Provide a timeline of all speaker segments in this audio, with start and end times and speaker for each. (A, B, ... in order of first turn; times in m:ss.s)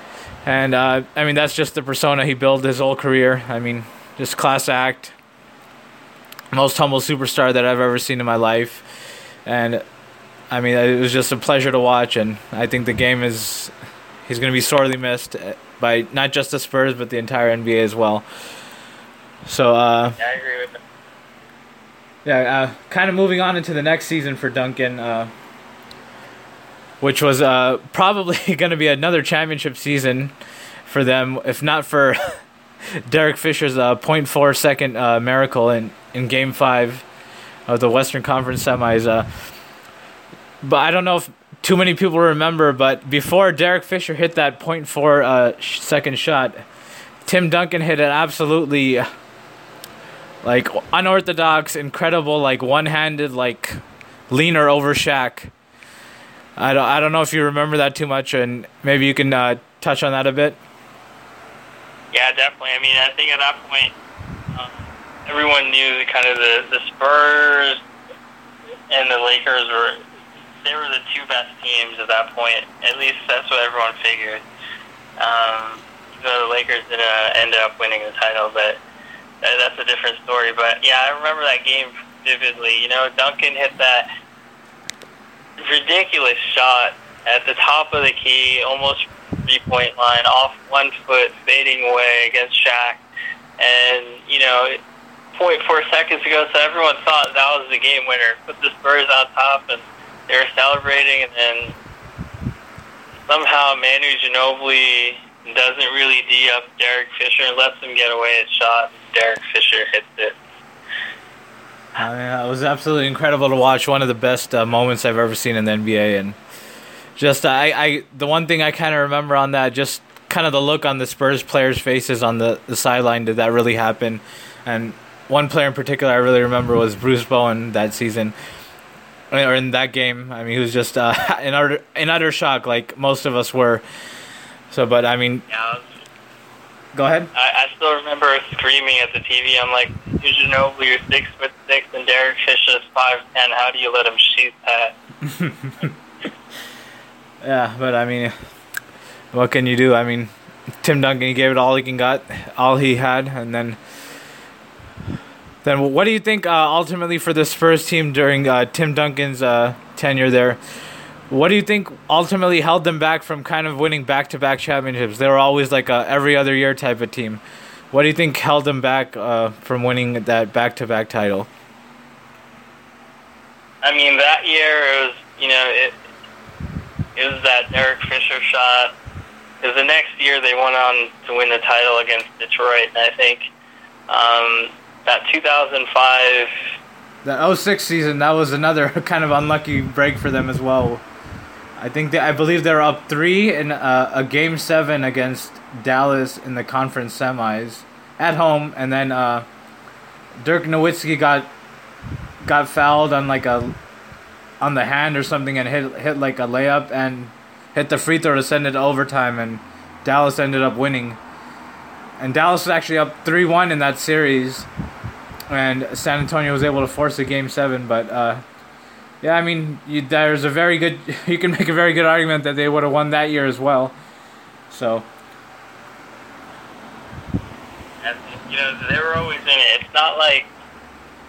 0:00.4-0:05.1 A
0:06.5-0:08.8 A
0:09.4-0:09.8 A
0:10.5-0:13.7 A
0:14.3-0:18.2 A
0:19.5-0:20.2 A
0:20.2-0:20.8 B
0:22.2-0:25.3 A
0:27.0-0:30.3 A
0:30.9-0:32.4 A
0:33.1-0:37.0 A
0:37.7-0:39.3 A
0:40.6-0:46.6 A
0:47.2-0:49.0 A
0:50.4-0:53.8 A
0:54.3-0:55.5 A
0:56.6-1:00.6 A
1:02.1-1:03.9 B
1:04.5-1:07.8 B
1:08.9-1:10.0 B
1:10.6-1:14.4 B
1:15.2-1:18.8 B
1:19.4-1:24.1 B
1:25.6-1:33.0 B
1:33.6-1:34.8 B
1:35.3-1:41.7 B
1:43.3-1:50.4 B
1:52.0-1:56.4 A
1:57.2-2:08.3 A
2:09.3-2:13.8 A
2:14.7-2:15.4 A
2:15.5-2:16.0 B
2:16.9-2:17.3 A
2:17.3-2:25.0 B
2:25.2-2:25.9 A
2:27.4-2:28.3 A
2:29.3-2:30.3 A
2:30.8-2:33.8 A
2:35.6-2:40.6 A
2:41.3-2:51.5 A
2:53.8-2:56.0 B
2:57.2-2:58.9 B
2:59.6-3:03.5 B
3:04.1-3:06.5 B
3:07.2-3:11.0 A
3:11.8-3:19.4 A
3:20.4-3:21.5 A
3:22.4-3:23.7 A
3:24.6-3:31.2 A
3:32.2-3:34.7 A
3:35.5-3:38.4 A
3:39.2-3:43.9 A
3:44.7-3:45.1 A
3:48.0-3:50.5 B